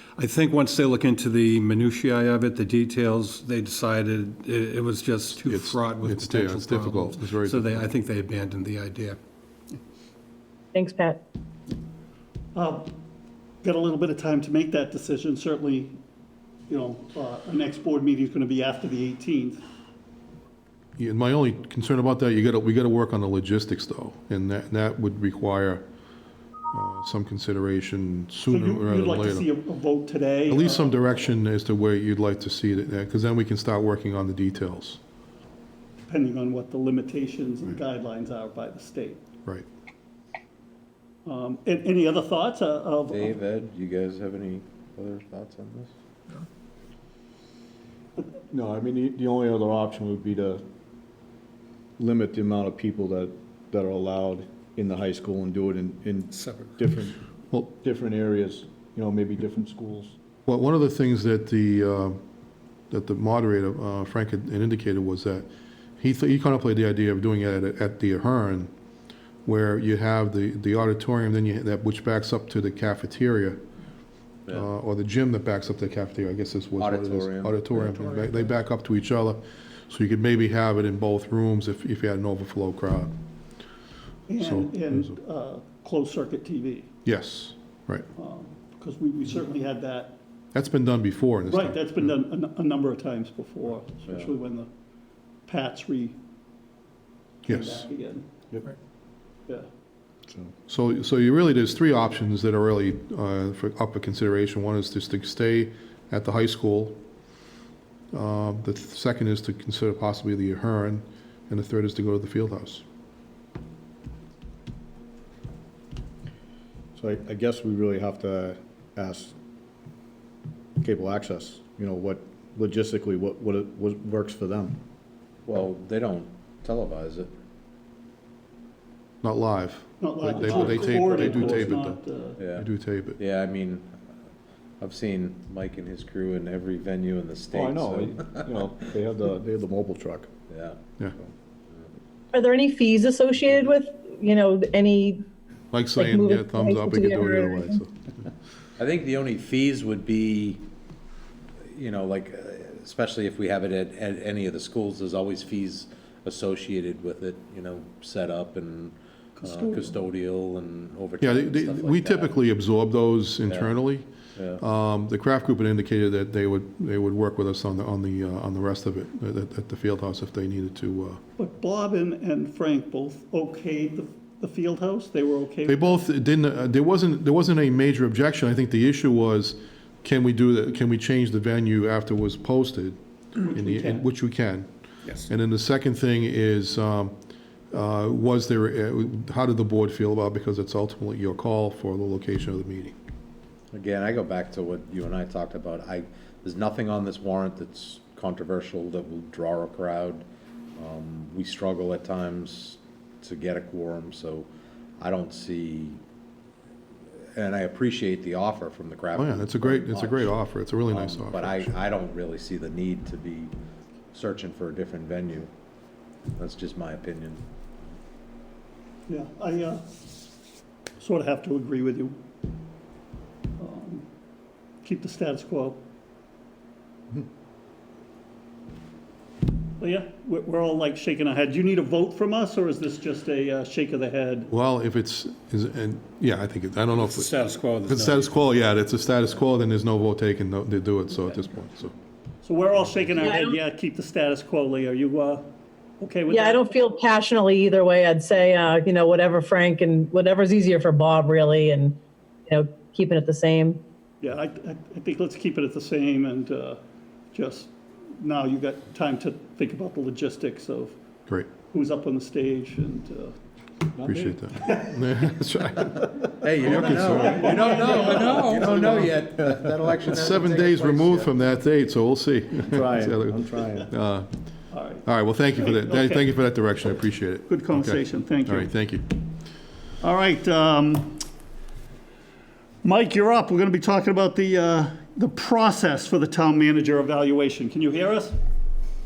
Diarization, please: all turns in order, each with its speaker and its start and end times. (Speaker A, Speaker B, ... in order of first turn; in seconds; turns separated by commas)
Speaker A: 0.2-9.2, Speaker B: 5.4-7.9, Speaker C: 10.7-11.2, Speaker D: 12.6-12.9, Speaker D: 13.6-16.0, Speaker D: 16.7-19.6, Speaker B: 21.0-25.8, Speaker B: 26.7-29.5, Speaker D: 28.5-31.3, Speaker B: 30.5-35.0, Speaker D: 36.1-39.2, Speaker D: 41.2-43.4, Speaker E: 43.1-45.9, Speaker F: 48.5-50.6, Speaker F: 52.0-57.2, Speaker A: 56.3-56.9, Speaker B: 57.5-57.8, Speaker F: 57.8-60.2, Speaker B: 60.5-62.2, Speaker B: 62.9-65.5, Speaker B: 66.0-68.7, Speaker B: 69.4-73.6, Speaker B: 74.5-83.1, Speaker E: 76.8-78.0, Speaker D: 78.1-78.4, Speaker D: 84.3-86.9, Speaker B: 84.4-85.2, Speaker B: 87.0-88.1, Speaker D: 88.2-90.2, Speaker B: 90.5-92.1, Speaker D: 91.5-94.7, Speaker D: 95.5-96.2, Speaker D: 97.4-98.2, Speaker B: 97.5-97.8, Speaker B: 100.7-107.0, Speaker B: 108.1-112.8, Speaker F: 117.0-119.4, Speaker F: 120.8-124.8, Speaker E: 125.5-127.3, Speaker B: 129.2-132.0, Speaker D: 130.0-132.4, Speaker E: 132.4-132.7, Speaker B: 132.5-133.2, Speaker E: 133.2-134.1, Speaker E: 134.8-138.8, Speaker F: 137.6-140.3, Speaker E: 140.5-140.8, Speaker C: 142.3-145.2, Speaker B: 145.7-147.9, Speaker C: 146.0-147.8, Speaker E: 148.8-150.7, Speaker E: 151.7-162.4, Speaker D: 159.4-159.9, Speaker B: 161.2-171.2, Speaker E: 163.5-163.8, Speaker E: 164.4-164.6, Speaker D: 171.4-176.0, Speaker B: 175.7-183.0, Speaker D: 183.4-184.0, Speaker B: 183.5-187.2, Speaker B: 187.7-192.9, Speaker E: 193.7-200.2, Speaker E: 200.8-204.5, Speaker E: 205.0-206.0, Speaker E: 207.4-213.5, Speaker B: 209.1-211.8, Speaker E: 214.1-215.5, Speaker E: 216.4-217.4, Speaker D: 219.1-219.8, Speaker D: 221.0-222.2, Speaker D: 223.6-224.1, Speaker D: 224.8-225.8, Speaker D: 229.8-234.5, Speaker B: 234.5-237.3, Speaker A: 236.9-238.4, Speaker B: 237.9-241.9, Speaker D: 242.4-246.8, Speaker C: 243.2-243.5, Speaker C: 246.3-253.8, Speaker D: 254.2-256.8, Speaker D: 257.3-261.0, Speaker D: 261.7-263.3, Speaker B: 264.0-267.5, Speaker E: 266.4-271.4, Speaker D: 266.6-268.9, Speaker B: 270.1-274.3, Speaker F: 272.7-273.9, Speaker D: 274.7-276.3, Speaker B: 275.0-279.0, Speaker D: 277.4-278.7, Speaker D: 280.0-281.2, Speaker D: 282.8-288.4